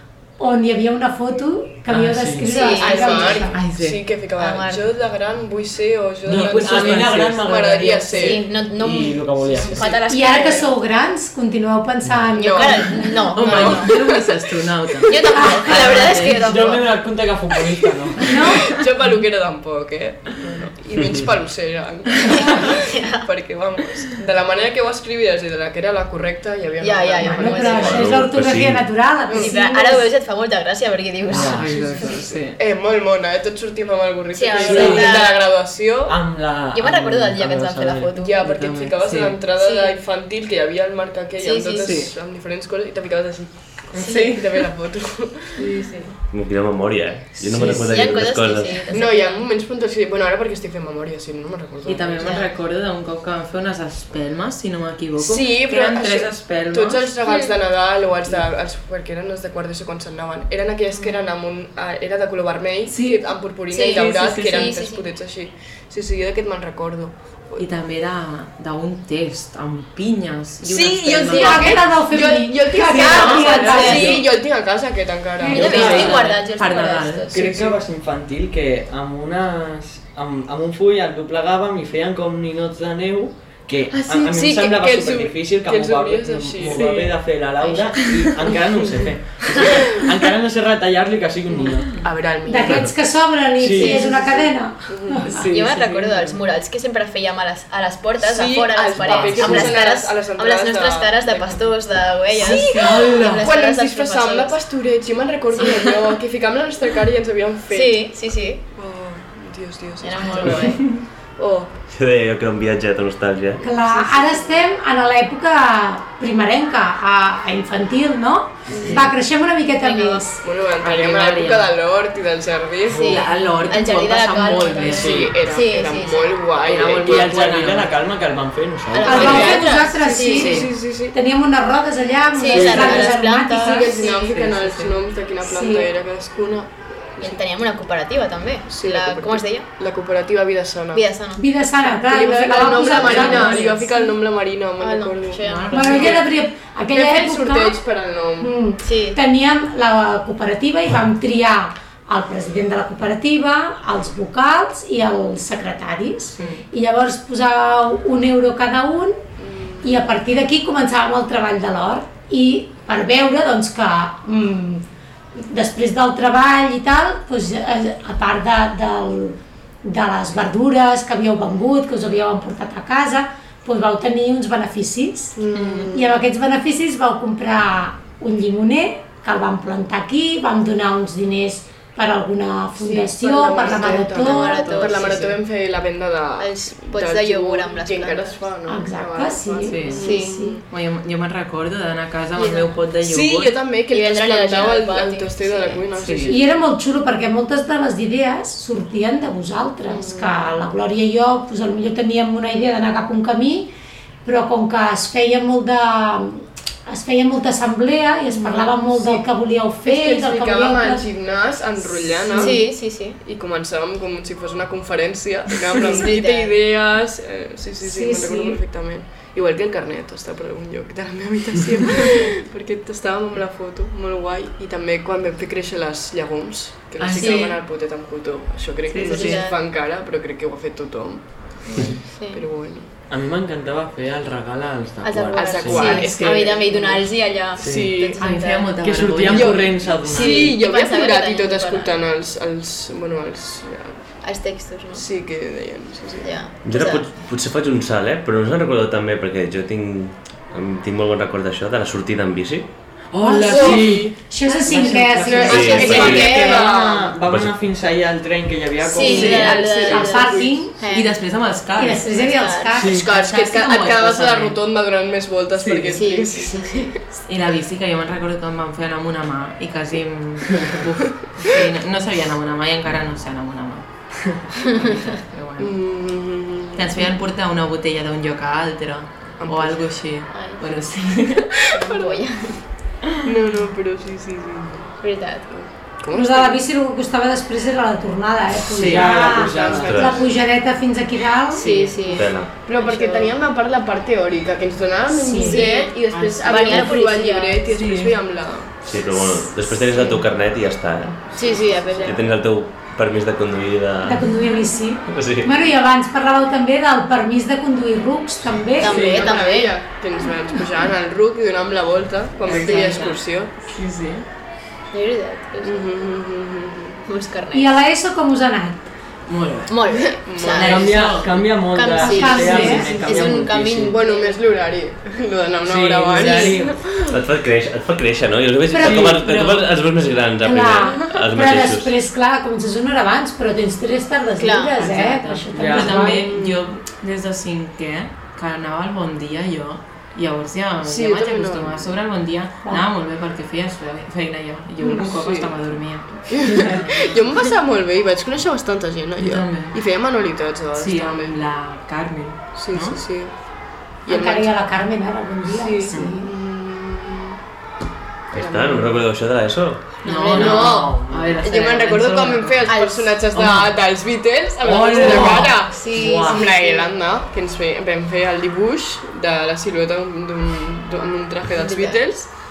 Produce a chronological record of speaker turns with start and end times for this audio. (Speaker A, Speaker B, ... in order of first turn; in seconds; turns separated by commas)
Speaker A: 0.4-3.6, Speaker B: 1.9-2.5, Speaker C: 2.5-3.5, Speaker D: 2.7-8.4, Speaker E: 3.5-4.0, Speaker C: 4.4-4.9, Speaker B: 6.2-9.9, Speaker E: 6.2-7.4, Speaker C: 8.1-10.7, Speaker D: 9.5-10.6, Speaker A: 10.1-13.1, Speaker D: 12.3-14.3, Speaker C: 12.3-13.9, Speaker E: 13.3-16.4, Speaker C: 15.1-16.9, Speaker A: 15.3-15.6, Speaker D: 16.1-16.8, Speaker B: 16.4-18.4, Speaker D: 18.0-22.7, Speaker A: 18.2-18.6, Speaker C: 22.3-23.2, Speaker D: 23.2-28.1, Speaker C: 26.8-28.1, Speaker A: 27.2-30.1, Speaker F: 27.7-28.9, Speaker D: 29.3-29.5, Speaker C: 29.3-31.7, Speaker B: 31.3-32.1, Speaker E: 31.5-32.6, Speaker D: 31.7-36.2, Speaker C: 34.3-35.4, Speaker B: 34.6-35.3, Speaker E: 34.7-35.0, Speaker B: 36.0-38.1, Speaker C: 36.7-38.4, Speaker D: 38.1-46.1, Speaker E: 38.4-39.4, Speaker C: 39.6-40.0, Speaker C: 41.4-41.9, Speaker E: 41.8-42.1, Speaker E: 43.9-44.4, Speaker C: 44.0-44.3, Speaker C: 45.6-45.9, Speaker F: 46.3-48.8, Speaker B: 47.5-47.8, Speaker C: 47.6-49.4, Speaker D: 48.9-52.4, Speaker E: 51.8-57.1, Speaker C: 52.2-52.5, Speaker D: 55.2-67.6, Speaker C: 57.2-57.5, Speaker E: 62.9-63.3, Speaker C: 63.7-65.1, Speaker E: 63.9-64.6, Speaker E: 67.6-71.8, Speaker D: 70.6-76.2, Speaker A: 71.3-74.2, Speaker C: 72.9-74.3, Speaker E: 72.9-74.2, Speaker A: 75.4-76.0, Speaker E: 75.5-77.3, Speaker C: 75.5-77.5, Speaker B: 75.6-76.2, Speaker D: 77.3-77.8, Speaker B: 77.3-92.0, Speaker E: 83.9-84.3, Speaker D: 84.2-86.8, Speaker E: 86.6-88.2, Speaker D: 88.9-89.8, Speaker D: 91.9-92.9, Speaker A: 92.4-95.4, Speaker B: 93.6-94.0, Speaker C: 93.8-94.1, Speaker D: 93.9-96.4, Speaker C: 95.5-104.5, Speaker D: 98.2-101.7, Speaker A: 99.0-99.6, Speaker D: 102.4-108.1, Speaker E: 102.4-103.5, Speaker C: 105.5-106.1, Speaker C: 107.7-108.6, Speaker D: 108.7-111.7, Speaker C: 110.0-110.9, Speaker E: 110.5-111.0, Speaker F: 111.9-113.6, Speaker A: 113.6-120.4, Speaker D: 113.7-114.6, Speaker D: 118.7-119.1, Speaker C: 119.8-120.3, Speaker D: 120.4-123.2, Speaker E: 120.8-121.8, Speaker C: 122.9-126.5, Speaker B: 122.9-123.2, Speaker E: 123.0-125.2, Speaker B: 124.9-125.4, Speaker D: 124.9-127.5, Speaker E: 126.6-127.9, Speaker B: 126.8-129.6, Speaker C: 128.9-130.5, Speaker A: 129.0-134.2, Speaker D: 129.1-131.1, Speaker E: 130.3-130.7, Speaker C: 132.3-134.2, Speaker B: 132.5-133.1, Speaker D: 132.6-137.4, Speaker B: 134.2-134.9, Speaker A: 135.4-135.9, Speaker C: 137.2-139.7, Speaker D: 138.7-141.0, Speaker C: 140.9-141.4, Speaker A: 141.3-144.1, Speaker D: 141.8-146.2, Speaker C: 142.6-143.8, Speaker C: 144.8-146.2, Speaker E: 145.4-146.2, Speaker A: 145.7-147.8, Speaker D: 146.9-148.5, Speaker A: 148.4-159.2, Speaker C: 148.8-149.2, Speaker E: 156.4-156.7, Speaker D: 159.4-160.1, Speaker A: 159.8-185.1, Speaker D: 175.3-176.1, Speaker D: 182.8-190.6, Speaker C: 183.5-185.4, Speaker C: 186.4-188.4, Speaker A: 188.7-190.6, Speaker E: 189.7-190.1, Speaker C: 189.9-190.5, Speaker E: 190.7-193.6, Speaker C: 192.3-192.7, Speaker D: 193.0-196.5, Speaker C: 193.9-195.8, Speaker E: 196.0-196.4, Speaker A: 196.2-203.7, Speaker D: 199.9-200.4, Speaker A: 204.2-211.1, Speaker D: 208.3-209.2, Speaker D: 209.8-232.9, Speaker A: 212.3-212.6, Speaker C: 212.3-213.2, Speaker C: 215.8-216.5, Speaker A: 217.8-218.6, Speaker E: 227.0-227.5, Speaker C: 227.2-227.6, Speaker E: 228.9-229.4, Speaker C: 229.0-229.6, Speaker C: 231.8-232.4, Speaker B: 233.1-236.1, Speaker C: 235.0-238.8, Speaker D: 235.3-238.3, Speaker E: 235.8-236.6, Speaker B: 237.6-237.9, Speaker E: 238.2-239.6, Speaker B: 238.7-240.6, Speaker D: 239.3-244.1, Speaker C: 239.8-242.0, Speaker C: 244.2-245.1, Speaker D: 244.9-246.4, Speaker C: 246.2-247.0, Speaker F: 246.6-252.7, Speaker E: 253.1-253.7, Speaker D: 253.2-254.1, Speaker C: 253.5-253.9, Speaker B: 253.5-259.6, Speaker A: 254.3-256.0, Speaker C: 254.4-256.7, Speaker D: 254.7-257.2, Speaker F: 255.5-256.4, Speaker F: 257.2-257.6, Speaker C: 258.8-261.2, Speaker D: 259.0-260.6, Speaker A: 259.2-260.8, Speaker E: 260.8-262.1, Speaker A: 261.8-263.1, Speaker C: 262.0-263.1, Speaker B: 262.8-263.1, Speaker D: 263.0-266.9, Speaker E: 263.0-264.6, Speaker E: 265.6-266.0, Speaker C: 265.9-266.9, Speaker E: 267.2-275.8, Speaker D: 275.6-277.1, Speaker E: 276.7-281.5, Speaker D: 279.4-279.9, Speaker C: 280.3-280.6, Speaker C: 281.7-282.6, Speaker D: 281.8-282.6, Speaker D: 283.2-285.0, Speaker C: 285.0-285.6, Speaker D: 285.5-286.6, Speaker A: 286.1-291.9, Speaker B: 288.7-290.1, Speaker D: 288.8-290.4, Speaker F: 289.7-290.2, Speaker C: 291.5-293.3, Speaker D: 291.6-298.8, Speaker F: 292.1-292.5, Speaker A: 295.1-295.8, Speaker C: 295.4-297.7, Speaker E: 297.7-298.1, Speaker F: 298.8-301.3, Speaker D: 301.3-302.2, Speaker C: 301.4-302.3, Speaker F: 302.0-304.4, Speaker A: 304.0-309.0, Speaker F: 305.1-305.5, Speaker C: 308.8-309.8, Speaker D: 308.8-313.5, Speaker B: 308.9-309.4, Speaker C: 312.5-313.1, Speaker E: 312.5-314.2, Speaker C: 314.9-316.0, Speaker D: 315.6-317.0, Speaker C: 317.1-317.7, Speaker A: 317.5-318.9, Speaker E: 319.3-319.7, Speaker C: 319.7-324.4, Speaker D: 319.9-321.1, Speaker E: 320.5-321.4, Speaker B: 320.6-324.0, Speaker A: 322.0-322.9, Speaker D: 322.2-327.2, Speaker B: 325.6-326.8, Speaker C: 326.2-326.5, Speaker F: 327.1-331.9, Speaker A: 328.7-329.7, Speaker B: 328.8-329.6, Speaker A: 330.4-336.3, Speaker C: 334.4-334.8, Speaker E: 334.8-347.1, Speaker B: 335.5-336.1, Speaker D: 336.0-336.6, Speaker D: 340.8-341.9, Speaker D: 345.0-345.5, Speaker D: 346.1-351.4, Speaker E: 349.2-349.8, Speaker E: 350.7-353.0, Speaker D: 352.5-353.5, Speaker D: 354.0-354.6, Speaker A: 354.1-356.3, Speaker D: 355.5-357.4, Speaker D: 358.3-359.0, Speaker F: 358.3-359.9, Speaker C: 360.0-360.7, Speaker E: 360.0-362.7, Speaker D: 360.3-372.3, Speaker B: 360.4-361.3, Speaker C: 362.6-363.2, Speaker B: 363.3-363.7, Speaker B: 364.7-366.4, Speaker E: 364.7-365.5, Speaker C: 364.9-366.9, Speaker C: 371.5-372.0